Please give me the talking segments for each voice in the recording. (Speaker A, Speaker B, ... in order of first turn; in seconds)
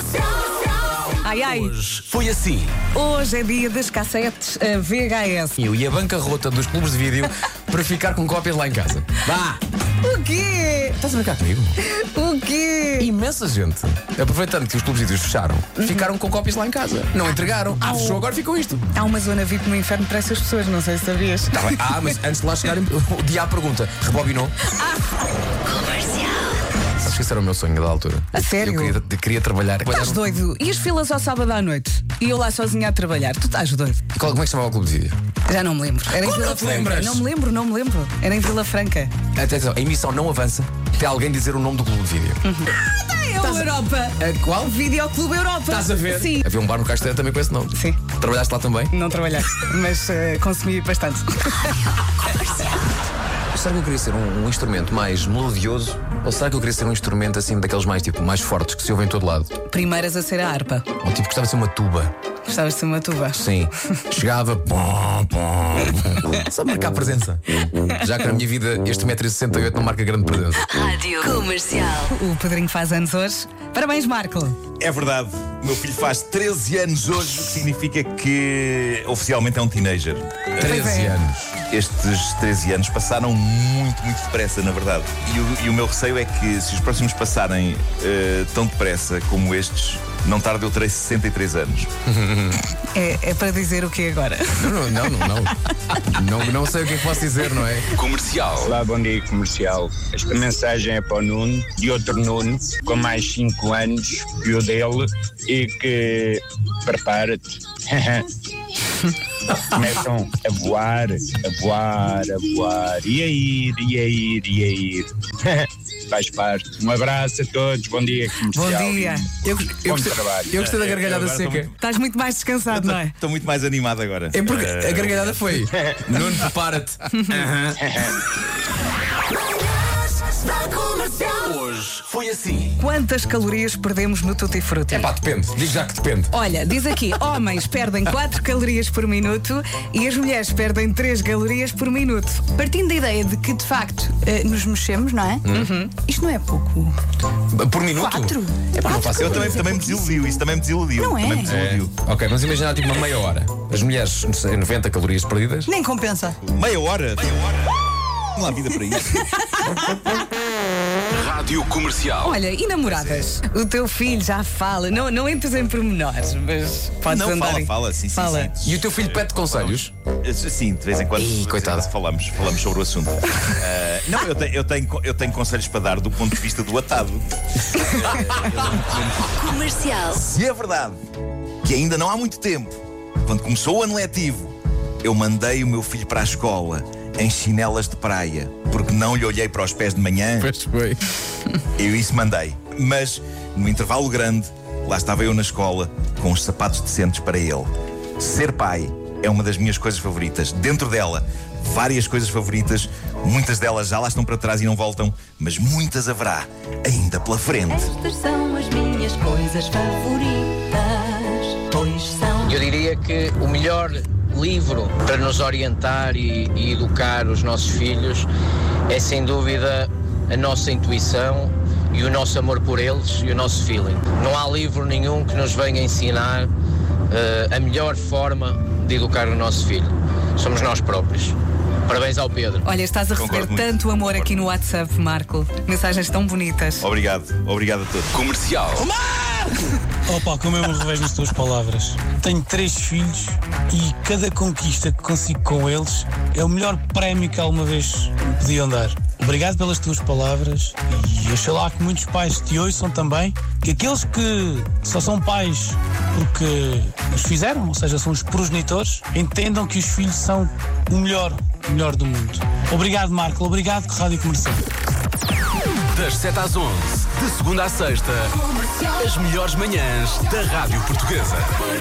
Speaker A: 1.2-1.8, 2.9-5.6, 10.0-11.0, 11.8-13.1, 15.8-16.1, 17.8-18.2, 18.9-21.8, 28.3-29.0, 29.9-34.0, 35.5-39.1, 42.4-46.4, 47.8-48.0, 48.9-51.7, 59.7-60.9, 62.5-63.4, 72.1-74.6, 80.6-81.2, 93.0-95.0, 118.5-119.3, 121.8-123.1, 132.8-135.1, 136.3-142.5, 145.5-145.9, 162.2-168.5, 232.7-236.9
Speaker B: 1.5-2.7, 98.0-98.7, 131.3-132.7, 161.2-162.3, 238.3-238.7, 265.9-268.3, 268.9-271.6
Speaker C: 5.6-9.6, 11.0-11.8, 13.0-18.9, 21.5-24.6, 27.0-30.2, 34.1-35.2, 36.1-37.2, 39.3-42.4, 43.4-44.8, 45.7-48.9, 53.5-59.5, 61.0-62.1, 63.3-67.4, 68.0-70.7, 80.6-81.5, 92.1-92.6, 94.6-97.9, 119.4-121.7, 124.3-127.0, 134.9-136.3, 145.4-145.7, 147.5-149.6, 151.4-155.7, 168.6-169.9, 171.2-171.9, 190.4-191.0
Speaker D: 70.7-72.1, 179.5-180.2, 207.7-212.6
Speaker E: 74.8-80.5, 81.7-91.9, 120.6-121.7, 122.8-125.4, 149.1-151.9, 156.5-157.7, 158.4-159.4, 162.9-163.2, 167.1-181.0, 181.6-190.5, 191.8-207.9, 233.1-234.5, 236.8-238.2
Speaker F: 98.6-108.3, 109.7-119.3, 119.8-120.6, 127.8-128.2
Speaker G: 142.6-145.4, 146.0-146.9, 148.1-148.7, 149.4-149.7, 151.0-151.4, 155.7-156.4
Speaker H: 212.4-218.3, 218.9-226.5, 227.1-231.4, 231.9-232.7
Speaker I: 238.8-239.6, 240.1-264.6